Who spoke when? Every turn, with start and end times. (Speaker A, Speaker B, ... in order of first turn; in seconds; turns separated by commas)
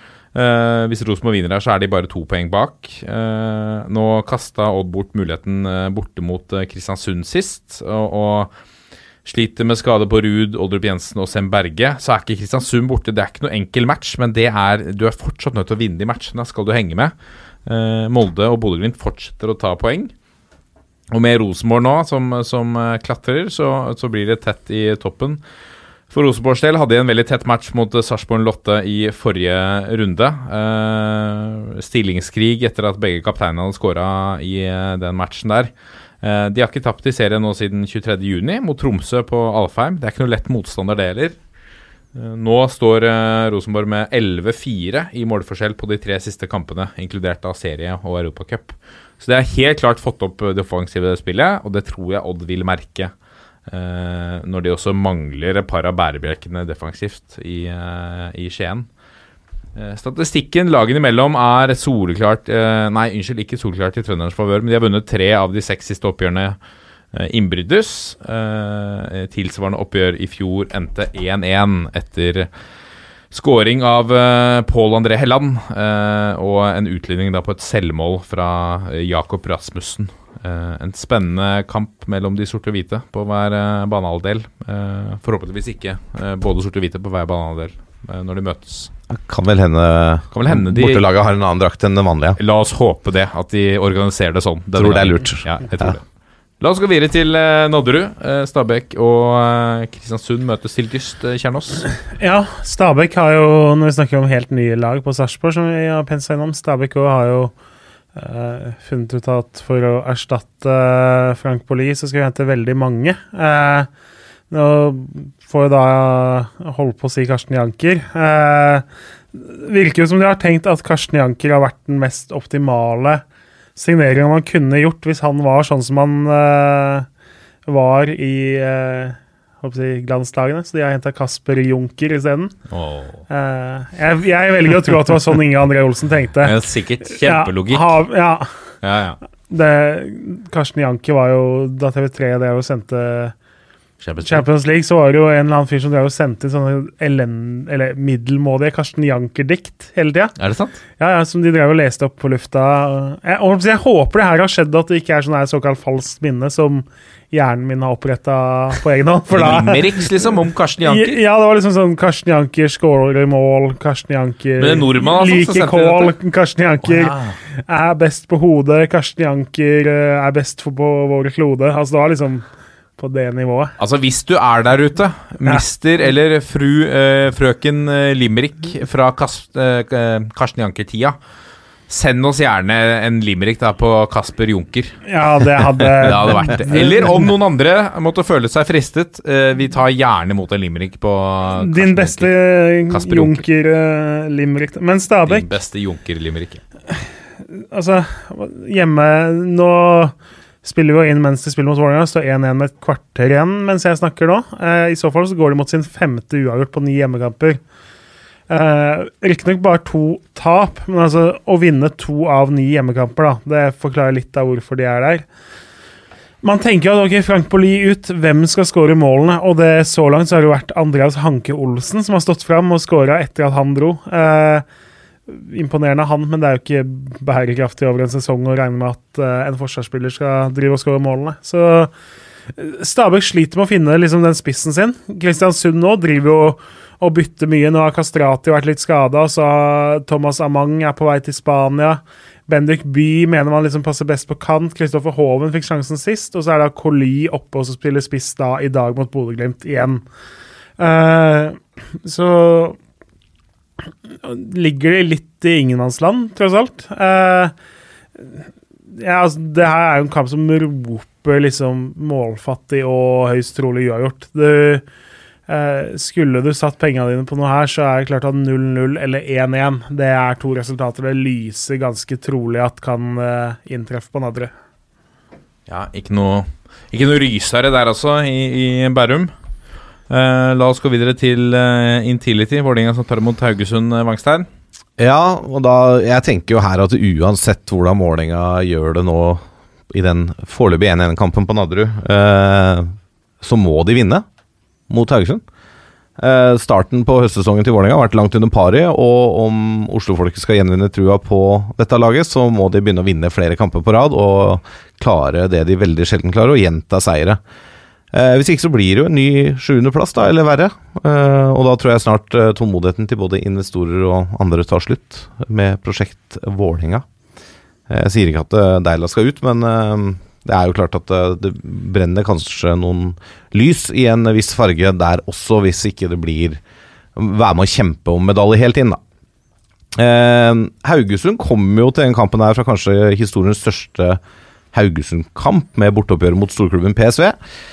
Speaker A: 0.3-8.5, Speaker A: 9.2-17.1, Speaker A: 17.7-20.1, Speaker A: 21.1-25.4, Speaker A: 26.1-35.7, Speaker A: 36.2-41.4, Speaker A: 42.1-53.1, Speaker A: 53.7-58.9, Speaker A: 59.8-66.6, Speaker A: 67.1-72.5, Speaker A: 73.3-88.9, Speaker B: 89.1-92.4, Speaker A: 90.3-91.0, Speaker A: 92.4-96.0, Speaker B: 94.8-96.0, Speaker A: 96.6-101.8, Speaker C: 102.2-107.5, Speaker C: 108.2-113.9, Speaker C: 114.5-123.2, Speaker C: 123.8-127.1, Speaker C: 127.7-132.5, Speaker A: 132.7-133.2, Speaker C: 133.3-136.5, Speaker A: 136.4-138.0, Speaker C: 137.1-138.5, Speaker A: 138.8-139.2, Speaker C: 139.5-143.3, Speaker A: 144.0-144.4, Speaker C: 144.2-150.3, Speaker A: 150.4-150.8, Speaker C: 151.0-160.0, Speaker A: 159.3-161.2, Speaker C: 160.8-172.5, Speaker A: 164.6-166.1, Speaker A: 166.8-167.4, Speaker C: 173.0-173.8, Speaker A: 173.8-181.2, Speaker A: 181.9-192.3, Speaker C: 185.1-187.3, Speaker C: 191.6-195.5, Speaker A: 192.8-193.4, Speaker A: 195.2-196.6, Speaker C: 197.5-207.6, Speaker C: 208.5-215.2, Speaker C: 216.4-224.6, Speaker C: 225.3-231.9, Speaker C: 232.6-250.0, Speaker C: 250.8-252.8, Speaker C: 254.2-257.5, Speaker C: 259.0-264.8, Speaker C: 265.5-274.5, Speaker A: 275.7-279.3, Speaker A: 280.1-284.5, Speaker B: 285.0-294.2, Speaker B: 294.9-295.4, Speaker B: 296.2-307.4, Speaker B: 308.1-317.0, Speaker B: 317.9-326.6, Speaker B: 327.1-329.0, Speaker B: 329.9-334.2, Speaker B: 334.7-337.4